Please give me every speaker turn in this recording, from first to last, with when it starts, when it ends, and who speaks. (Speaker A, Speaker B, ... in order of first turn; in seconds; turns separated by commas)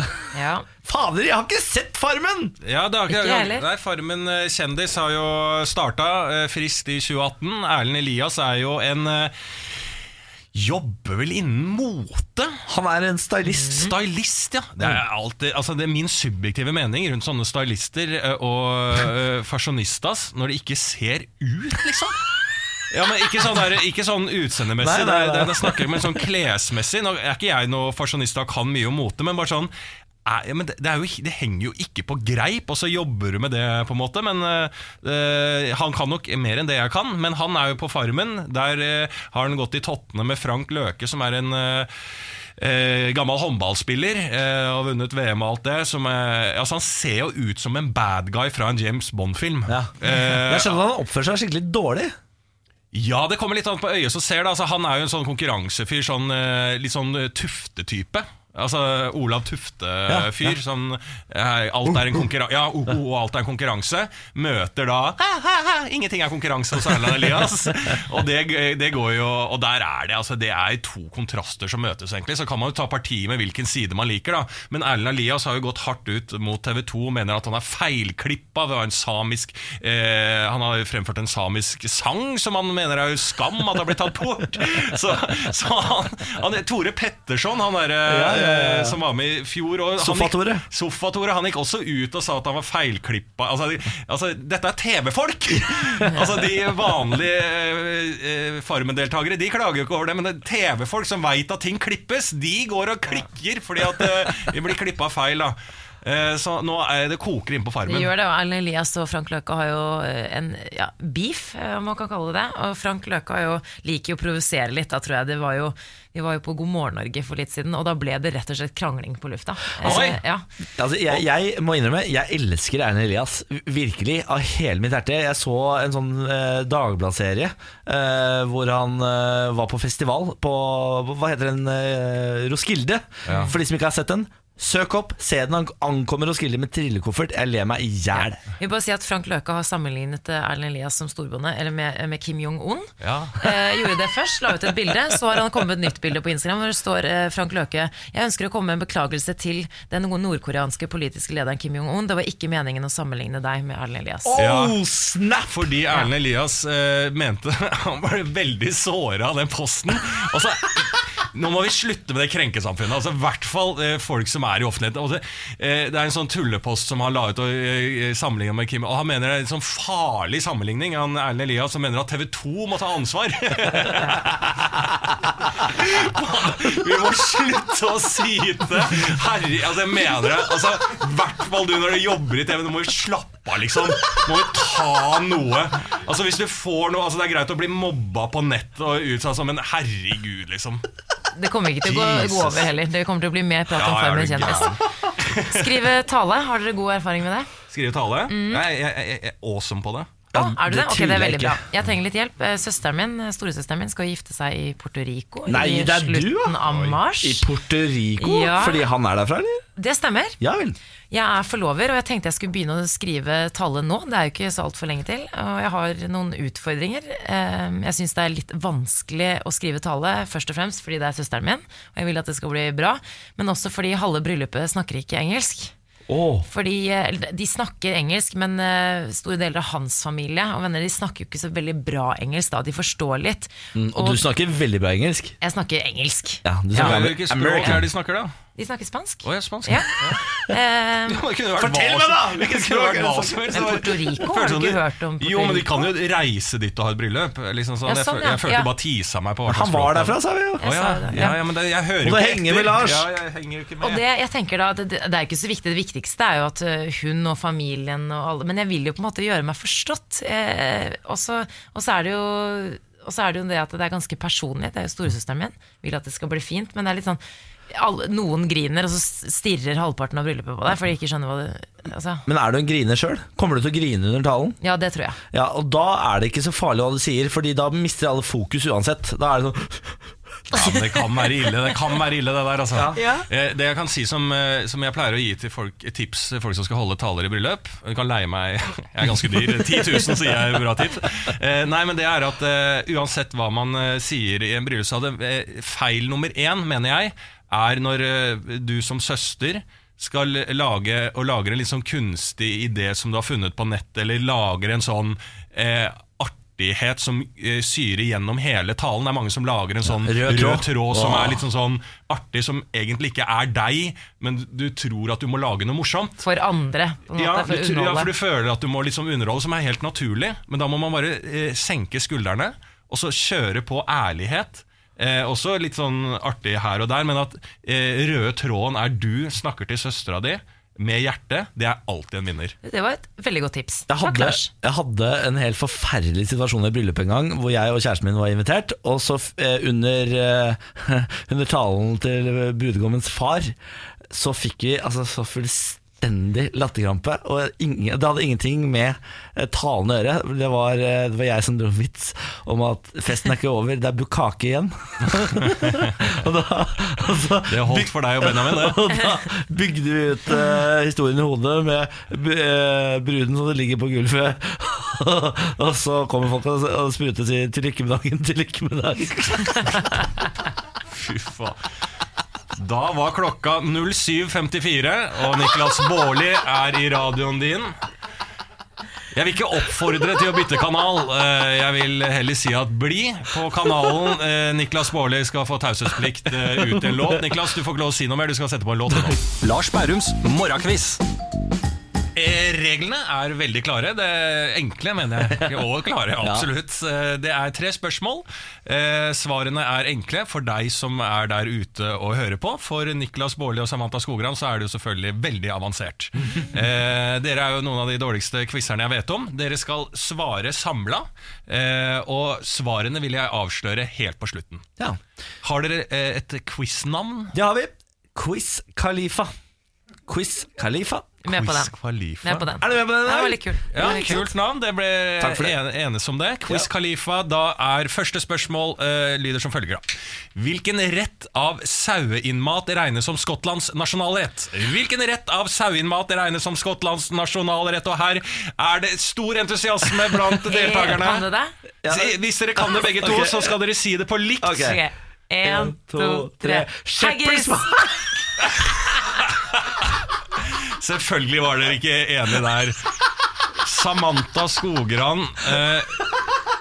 Speaker A: 0.3-0.7, Speaker B: 0.8-2.5, Speaker C: 2.6-9.3, Speaker A: 3.1-3.7, Speaker C: 10.6-12.6, Speaker B: 12.7-13.9, Speaker C: 13.7-22.2, Speaker C: 22.9-29.7, Speaker B: 24.8-26.2, Speaker C: 30.3-41.9, Speaker C: 42.6-50.8, Speaker B: 49.7-52.1, Speaker C: 52.9-108.1, Speaker B: 88.1-89.0, Speaker B: 90.0-90.6, Speaker A: 107.9-120.5, Speaker C: 119.8-120.2, Speaker B: 119.8-120.1, Speaker B: 120.8-138.4, Speaker C: 133.3-133.5, Speaker A: 138.2-154.4, Speaker C: 143.0-143.5, Speaker B: 154.2-155.7, Speaker C: 154.4-154.8, Speaker C: 155.5-190.8, Speaker A: 191.3-194.8, Speaker C: 191.8-192.7, Speaker C: 193.8-195.7, Speaker A: 195.5-197.5, Speaker C: 197.7-200.1, Speaker A: 198.3-198.6, Speaker B: 200.3-201.6, Speaker A: 200.3-207.5, Speaker B: 205.5-206.6, Speaker C: 206.7-207.0, Speaker B: 207.2-209.7, Speaker A: 208.2-208.9, Speaker A: 209.8-210.4, Speaker B: 210.4-210.8, Speaker A: 211.1-225.7, Speaker B: 226.1-226.5, Speaker A: 226.5-234.2, Speaker B: 233.8-235.4, Speaker A: 235.4-236.9, Speaker B: 236.4-237.9, Speaker C: 236.7-238.3, Speaker A: 238.6-239.9, Speaker C: 239.2-240.2, Speaker A: 240.5-241.2, Speaker C: 241.1-254.0, Speaker B: 241.6-243.8, Speaker A: 243.5-245.9, Speaker A: 247.9-248.7, Speaker B: 249.5-250.6, Speaker A: 250.6-251.4, Speaker B: 252.0-253.1, Speaker A: 253.8-272.2, Speaker B: 272.3-274.6, Speaker A: 274.6-275.2, Speaker B: 275.3-280.0, Speaker C: 280.5-316.3, Speaker A: 280.5-280.8, Speaker B: 282.7-283.0, Speaker A: 283.0-283.2, Speaker B: 309.9-311.4, Speaker A: 316.2-318.1, Speaker C: 317.1-332.6, Speaker A: 332.6-334.5, Speaker B: 333.9-343.6, Speaker B: 344.1-369.8, Speaker C: 357.5-358.9, Speaker C: 370.9-371.6, Speaker C: 372.6-377.7, Speaker C: 379.1-391.0, Speaker B: 386.6-387.2, Speaker C: 392.1-414.7, Speaker B: 395.3-395.6, Speaker B: 396.2-396.5, Speaker C: 415.4-417.4, Speaker B: 417.3-419.3, Speaker B: 420.1-421.1, Speaker A: 421.2-424.3, Speaker C: 421.3-422.5, Speaker B: 422.6-424.1, Speaker C: 423.7-441.2, Speaker B: 425.2-425.6, Speaker A: 440.5-441.5, Speaker B: 441.8-443.6, Speaker C: 441.9-444.8, Speaker B: 444.4-444.8, Speaker A: 444.6-447.7, Speaker B: 445.4-448.2, Speaker C: 450.8-452.8, Speaker C: 453.6-456.1